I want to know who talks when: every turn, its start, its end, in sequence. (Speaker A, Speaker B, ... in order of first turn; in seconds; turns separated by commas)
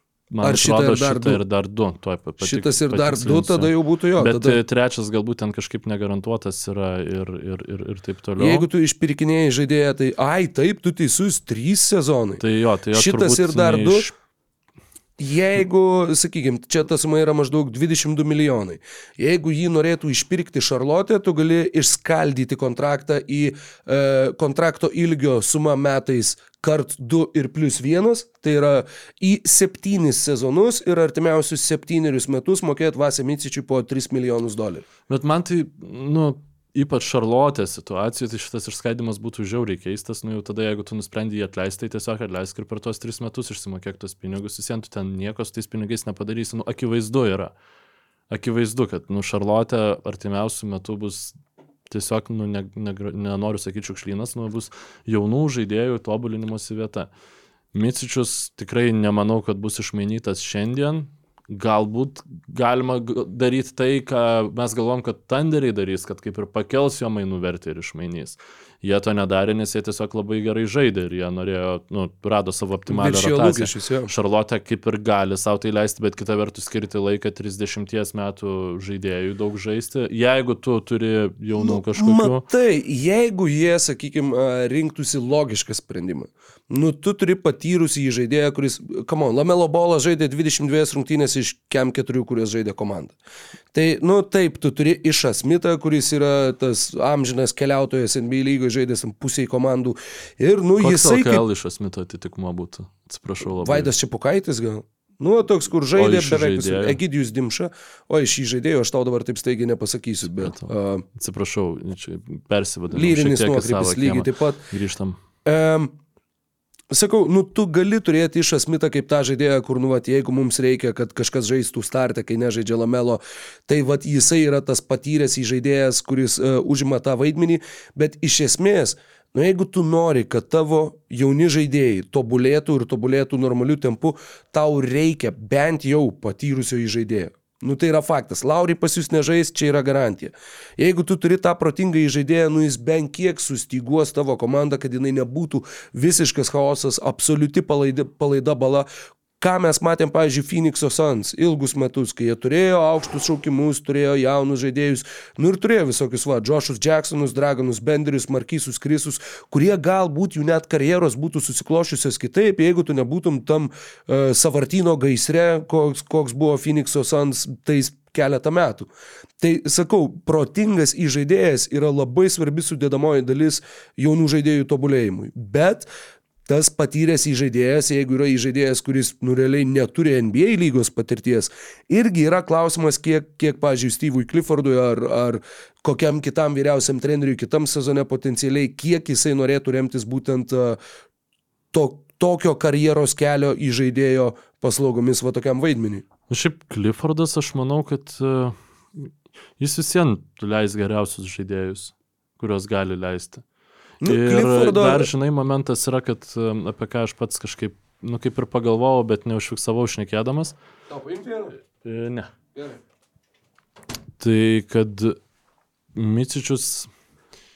Speaker A: 0.3-8.7, Speaker B: 0.4-1.4, Speaker B: 2.4-4.6, Speaker B: 8.4-12.4, Speaker A: 12.4-14.1, Speaker B: 12.9-14.1, Speaker B: 15.2-34.9, Speaker A: 35.1-47.5, Speaker A: 48.3-51.4, Speaker A: 51.9-57.1, Speaker A: 57.7-82.5, Speaker B: 72.9-74.1, Speaker B: 81.6-93.1, Speaker B: 93.7-101.4, Speaker A: 100.8-103.9, Speaker B: 103.6-111.0, Speaker A: 106.0-107.0, Speaker A: 110.4-115.2, Speaker B: 112.9-114.6, Speaker B: 115.4-115.9, Speaker B: 116.9-148.9, Speaker B: 149.4-168.9, Speaker B: 169.4-175.9, Speaker B: 176.5-190.8, Speaker B: 191.7-196.1, Speaker A: 196.3-203.4, Speaker B: 204.0-205.1, Speaker A: 204.0-210.5, Speaker B: 210.9-211.6, Speaker A: 211.8-212.3, Speaker A: 214.2-215.2, Speaker A: 215.9-216.9